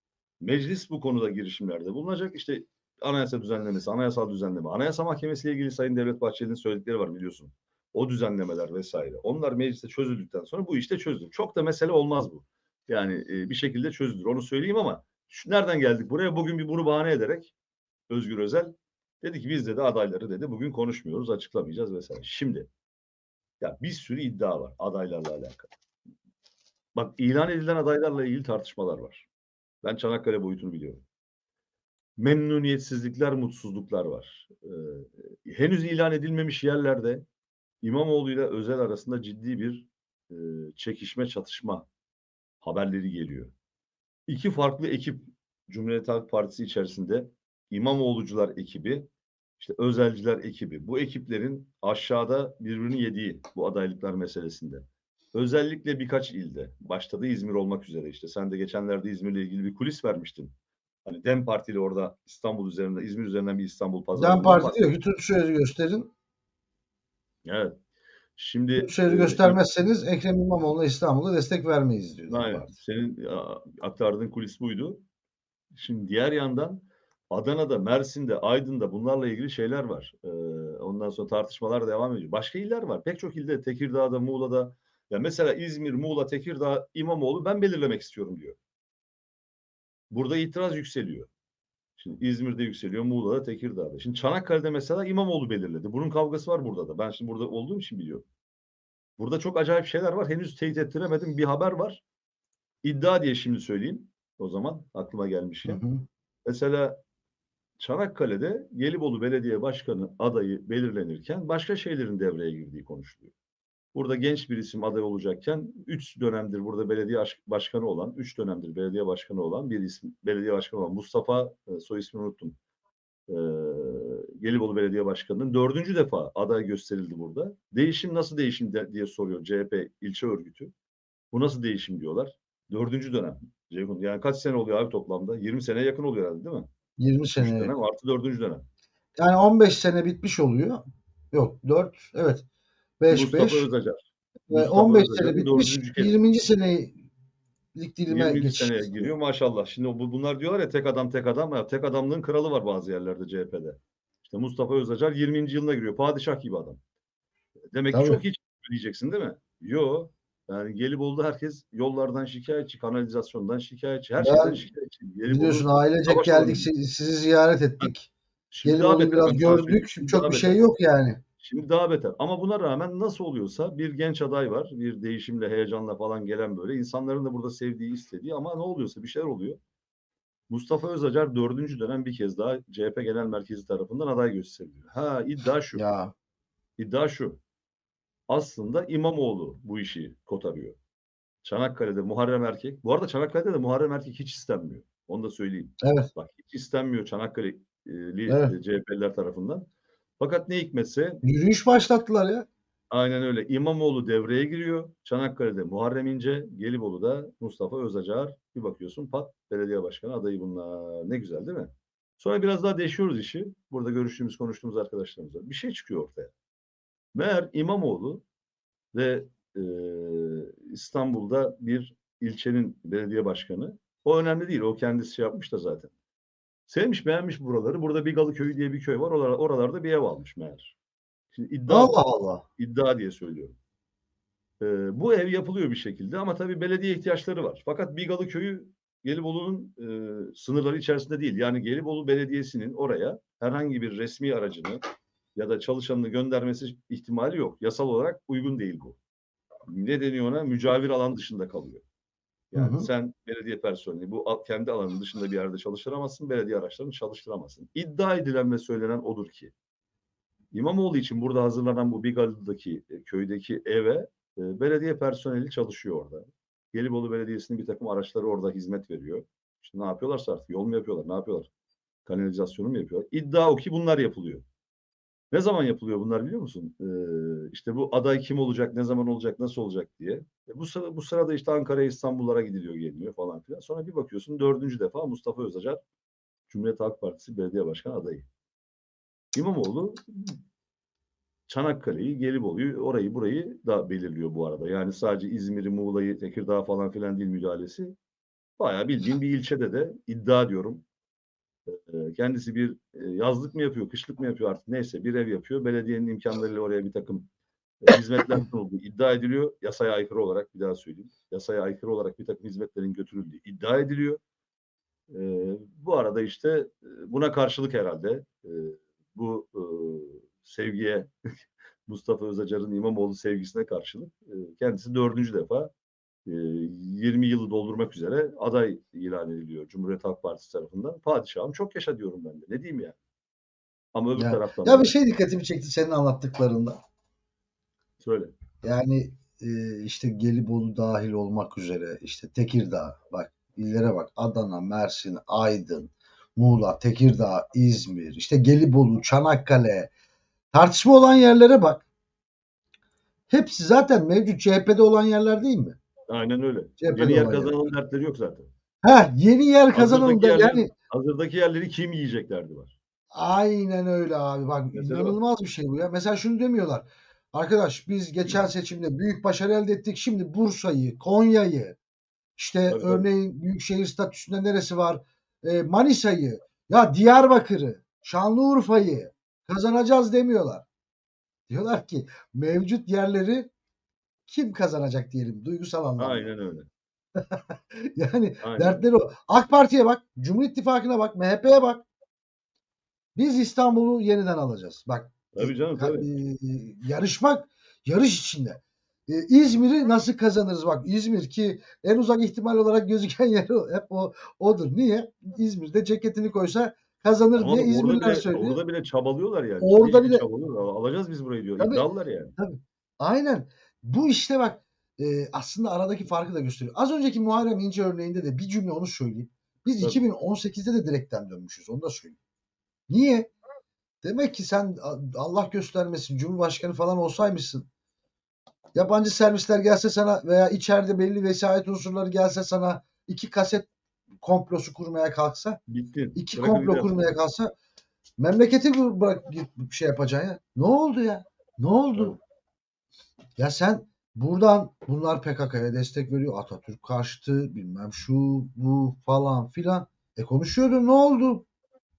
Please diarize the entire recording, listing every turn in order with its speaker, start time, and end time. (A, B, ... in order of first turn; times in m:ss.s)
0:00.4-0:17.5 A
0:18.1-0:22.7 A
0:23.6-0:25.7 A
0:26.9-0:29.3 A
0:29.8-0:31.0 A
0:32.2-0:37.2 A
0:37.8-0:41.9 A
0:42.6-0:43.5 A
0:44.3-0:49.1 A
0:49.6-1:00.5 A
1:01.0-1:04.9 A
1:04.1-1:06.1 B
1:07.4-1:07.8 A
1:08.4-1:09.6 A
1:08.8-1:12.7 B
1:12.3-1:15.0 A
1:15.7-1:28.6 A
1:30.1-1:31.3 A
1:32.0-1:38.2 A
1:39.2-1:42.0 A
1:42.8-1:45.8 A
1:45.6-1:46.0 B
1:46.4-1:47.0 A
1:47.8-1:53.3 A
1:53.9-2:02.6 A
2:03.3-2:10.7 A
2:11.3-2:16.7 A
2:17.0-2:17.7 B
2:17.4-2:18.6 A
2:19.2-2:22.4 B
2:23.0-2:23.7 B
2:23.1-2:26.2 A
2:24.5-2:27.0 B
2:27.7-2:29.1 B
2:28.1-2:36.8 A
2:37.7-2:46.7 A
2:37.9-2:38.2 B
2:44.2-2:44.6 B
2:45.3-2:48.1 B
2:48.5-2:50.7 A
2:48.6-2:51.2 B
2:51.4-2:59.6 A
3:00.5-3:05.8 A
3:05.7-3:06.1 B
3:06.8-3:07.4 A
3:08.3-3:10.8 A
3:11.4-3:19.7 A
3:15.8-3:16.1 B
3:18.3-3:18.5 B
3:20.2-3:21.2 A
3:21.2-3:22.5 B
3:22.9-3:36.3 A
3:37.1-3:38.2 A
3:38.9-3:45.9 A
3:46.7-3:50.8 A
3:51.3-3:52.0 A
3:51.7-3:52.4 B
3:52.6-3:53.6 A
3:54.6-4:04.8 A
4:05.3-4:09.0 A
4:09.7-4:11.8 A
4:12.5-4:19.5 A
4:12.5-4:12.9 B
4:20.5-4:31.5 A
4:32.0-4:34.4 A
4:35.3-4:45.8 A
4:46.5-4:48.3 A
4:49.3-4:50.4 A
4:51.5-4:57.9 A
4:58.6-5:00.8 A
5:01.7-5:07.3 A
5:07.8-5:14.2 A
5:15.1-5:21.1 A
5:21.8-5:25.7 A
5:26.2-5:33.0 A
5:33.9-5:34.9 A
5:34.2-5:36.8 B
5:38.0-5:38.3 A
5:38.6-5:49.9 B
5:50.5-5:51.8 B
5:53.3-5:55.8 B
5:56.1-5:58.5 A
5:56.8-5:57.5 B
5:58.8-6:00.7 B
5:59.7-6:02.8 A
6:03.1-6:11.8 B
6:04.7-6:05.2 A
6:12.4-6:20.6 B
6:12.7-6:13.1 A
6:21.5-6:23.5 B
6:24.3-6:26.3 B
6:26.0-6:26.7 A
6:27.2-6:31.8 B
6:28.4-6:28.8 A
6:33.1-6:48.6 B
6:35.3-6:36.1 A
6:47.4-6:52.3 A
6:49.6-6:50.3 B
6:51.6-6:51.8 B
6:52.4-7:02.2 B
7:02.9-7:03.3 B
7:04.0-7:07.7 B
7:08.7-7:13.7 B
7:14.2-7:15.6 B
7:15.7-7:17.0 A
7:16.1-7:17.5 B
7:18.2-7:22.2 B
7:23.4-7:31.4 B